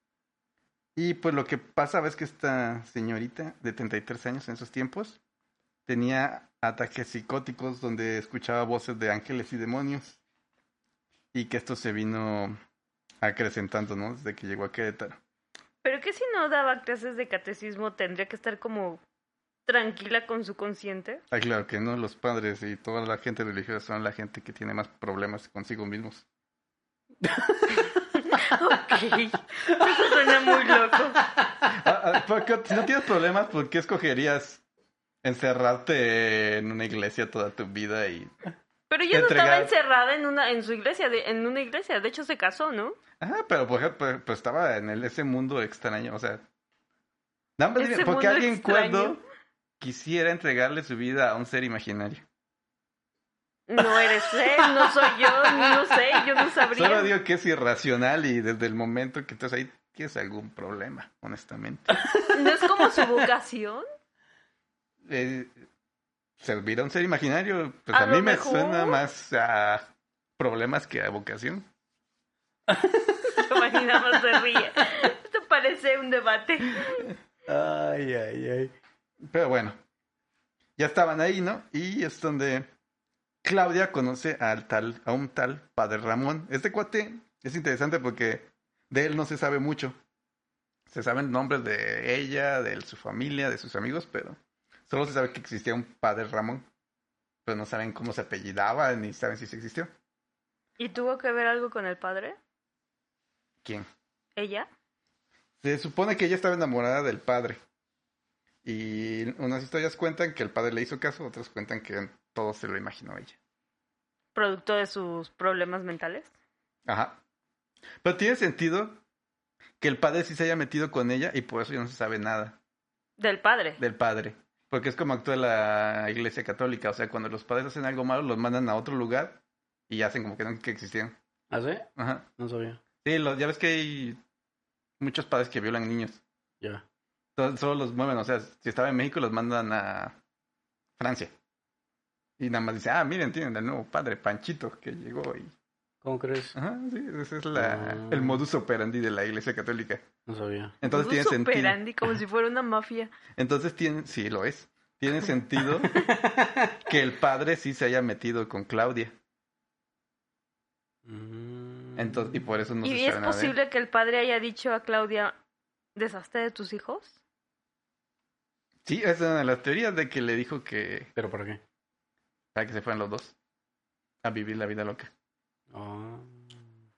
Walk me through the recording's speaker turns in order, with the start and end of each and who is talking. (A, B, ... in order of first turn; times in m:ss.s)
0:01.0-0:05.2 A
0:05.9-0:10.2 A
0:11.3-0:12.6 A
0:13.2-0:15.2 A
0:15.8-0:19.0 B
0:19.6-0:21.2 B
0:21.3-0:26.2 A
0:27.2-0:28.0 C
0:27.8-0:31.2 B
0:29.8-0:31.6 C
0:31.6-0:34.6 A
0:35.2-0:38.3 A
0:38.9-0:43.0 B
0:39.1-0:39.7 A
0:43.2-0:46.4 A
0:47.6-0:49.2 A
0:47.8-0:49.2 B
0:49.8-0:52.2 A
0:53.7-0:57.1 B
0:54.3-0:55.7 C
0:56.7-1:02.0 A
1:02.0-1:02.3 C
1:02.3-1:03.8 B
1:05.0-1:05.6 A
1:06.4-1:09.9 A
1:07.9-1:09.0 B
1:10.4-1:11.7 A
1:12.7-1:13.8 C
1:13.3-1:17.1 B
1:17.4-1:18.7 C
1:19.2-1:19.8 A
1:20.8-1:22.7 A
1:23.4-1:30.0 A
1:30.9-1:36.7 A
1:37.4-1:39.9 A
1:40.8-1:42.4 B
1:44.4-1:44.7 B
1:45.6-1:47.6 A
1:48.6-1:53.4 A
1:54.3-1:56.3 B
1:56.8-1:57.2 A
1:58.0-1:59.0 A
1:59.8-2:02.6 A
2:03.2-2:03.8 B
2:03.8-2:11.2 A
2:11.5-2:12.8 C
2:12.0-2:12.3 A
2:13.0-2:14.2 A
2:15.0-2:16.2 A
2:17.4-2:20.2 A
2:21.0-2:21.3 A
2:22.4-2:25.5 A
2:26.0-2:26.6 C
2:26.5-2:30.1 A
2:27.6-2:28.4 C
2:30.2-2:30.8 C
2:30.8-2:31.8 A
2:30.8-2:33.1 B
2:33.3-2:36.0 A
2:35.8-2:36.9 C
2:36.8-2:39.1 A
2:41.0-2:42.4 C
2:42.0-2:43.5 A
2:42.8-2:45.4 B
2:46.0-2:47.2 B
2:48.8-2:51.1 A
2:51.2-2:51.6 C
2:52.5-2:53.3 A
2:54.2-2:55.1 A
2:55.7-2:56.6 C